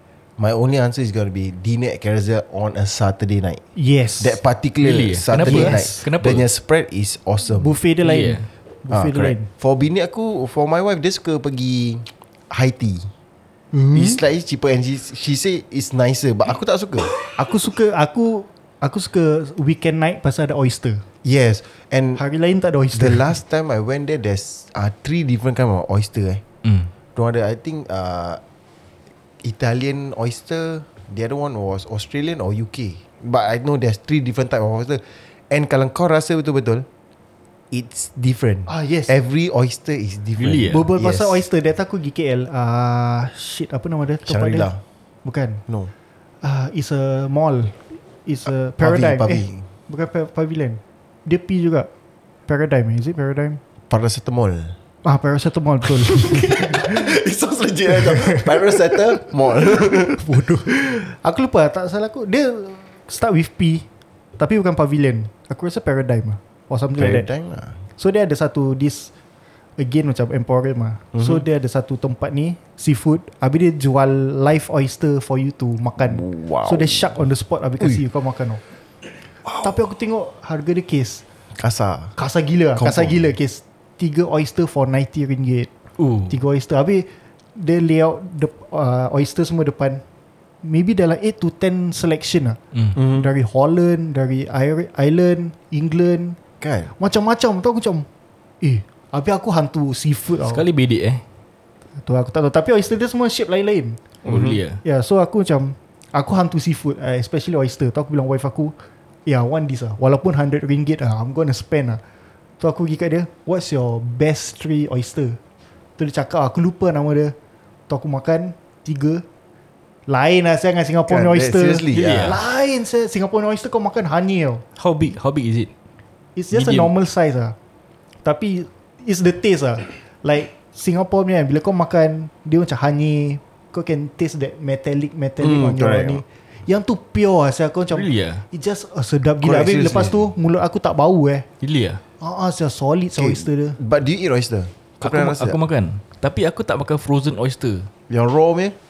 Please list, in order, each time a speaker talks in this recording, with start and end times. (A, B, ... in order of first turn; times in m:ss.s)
0:00.4-0:03.6 A
0:03.8-0:04.4 B
0:04.2-0:07.8 A
0:04.8-0:06.4 C
0:05.3-0:06.0 B
0:07.6-0:09.5 B
0:08.0-0:08.5 C
0:08.9-0:13.1 A
0:13.7-0:14.2 B
0:13.9-0:17.2 A
0:17.3-0:21.0 B
0:21.2-0:22.2 A
0:22.2-0:23.3 B
0:22.9-0:26.4 A
0:26.6-0:26.9 C
0:27.1-0:28.4 A
0:29.4-0:36.9 A
0:37.7-0:41.4 A
0:38.7-0:39.1 B
0:40.4-0:40.8 C
0:40.7-0:44.7 B
0:44.2-0:44.8 A
0:45.2-0:45.6 B
0:46.4-0:51.9 B
0:48.8-0:49.7 A
0:52.5-0:53.6 B
0:53.9-0:54.8 A
0:55.0-0:57.1 B
0:55.8-1:00.2 A
0:57.9-0:58.9 B
0:59.8-1:03.9 B
1:04.4-1:07.3 B
1:07.0-1:07.8 A
1:08.0-1:09.1 B
1:09.8-1:18.6 B
1:11.1-1:11.4 A
1:16.0-1:17.2 A
1:19.5-1:21.2 B
1:21.5-1:22.2 A
1:22.2-1:25.7 B
1:22.8-1:23.3 A
1:26.0-1:26.4 C
1:26.3-1:30.0 B
1:30.6-1:36.4 B
1:33.0-1:33.3 A
1:36.6-1:36.9 A
1:37.0-1:38.1 B
1:38.6-1:40.6 B
1:40.4-1:41.2 C
1:42.0-1:44.0 B
1:44.2-1:44.8 C
1:44.2-1:44.6 A
1:44.8-1:48.7 B
1:49.2-1:52.0 B
1:52.6-1:55.4 B
1:56.0-1:57.3 B
1:57.9-1:59.2 B
2:00.1-2:04.6 B
2:01.1-2:02.4 A
2:01.9-2:02.4 C
2:04.8-2:05.7 C
2:06.4-2:07.6 B
2:06.5-2:06.9 C
2:08.2-2:21.4 B
2:15.4-2:16.2 A
2:17.9-2:18.4 C
2:19.4-2:20.3 A
2:21.6-2:22.0 C
2:22.2-2:23.8 B
2:23.2-2:25.6 A
2:25.0-2:27.9 C
2:28.1-2:28.8 A